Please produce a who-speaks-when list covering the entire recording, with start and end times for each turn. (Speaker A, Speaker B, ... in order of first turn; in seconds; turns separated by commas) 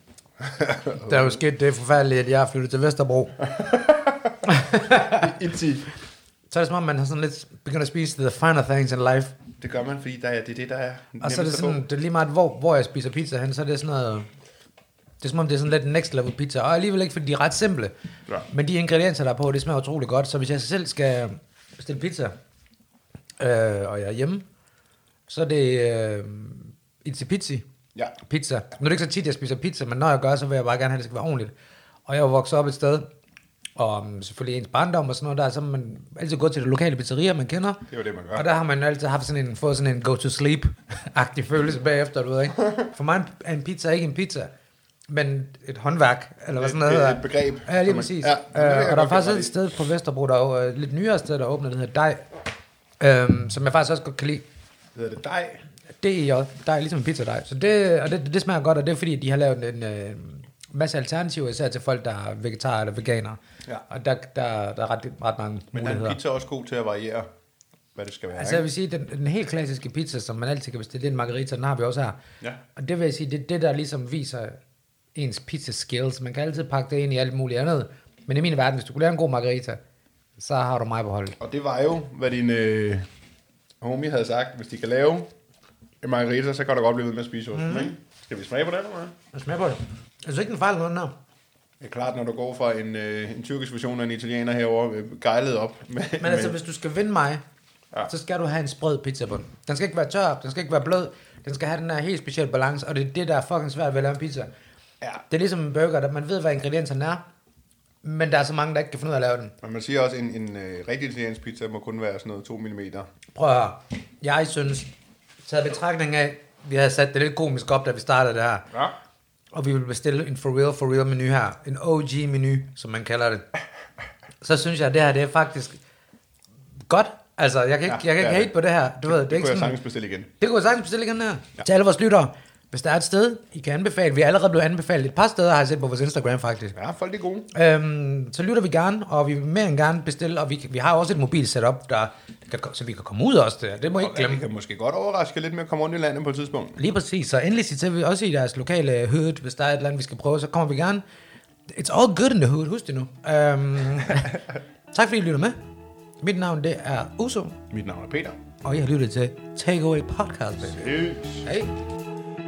Speaker A: 0.4-1.4, Speaker B: 1.0-3.4, Speaker A: 3.5-4.4, Speaker B: 4.5-5.2, Speaker A: 5.0-5.9, Speaker B: 6.5-9.3, Speaker A: 9.6-11.8, Speaker B: 11.2-14.3, Speaker B: 15.2-17.9, Speaker B: 18.5-22.3, Speaker B: 23.4-24.4, Speaker B: 25.3-27.6, Speaker B: 28.2-31.5, Speaker B: 32.1-33.1, Speaker B: 33.8-37.8, Speaker A: 37.9-38.5, Speaker B: 38.3-44.5, Speaker B: 45.1-52.2, Speaker A: 46.6-49.5, Speaker B: 53.0-54.4, Speaker A: 54.9-55.6, Speaker B: 56.0-66.2, Speaker A: 65.7-67.3, Speaker A: 67.9-68.6, Speaker B: 68.3-72.2, Speaker B: 72.8-74.6, Speaker B: 75.1-79.8, Speaker B: 80.4-81.4, Speaker A: 81.4-83.1, Speaker A: 83.8-85.3, Speaker A: 86.0-89.2, Speaker B: 87.5-87.9, Speaker B: 89.3-91.1, Speaker A: 91.8-96.6, Speaker B: 96.2-97.4, Speaker B: 98.1-104.5, Speaker B: 105.3-107.2, Speaker B: 108.0-109.5, Speaker A: 109.6-113.1, Speaker B: 113.3-114.9, Speaker B: 115.5-118.7, Speaker B: 119.5-123.4, Speaker B: 124.4-125.8, Speaker B: 126.9-129.8, Speaker A: 127.8-130.3, Speaker B: 130.4-136.8, Speaker A: 136.7-137.5, Speaker B: 137.5-144.4, Speaker A: 144.0-146.8, Speaker B: 146.8-151.0, Speaker B: 151.7-155.6, Speaker B: 156.2-157.6, Speaker A: 157.7-158.4, Speaker B: 158.6-160.9, Speaker A: 160.7-161.4, Speaker B: 161.4-161.7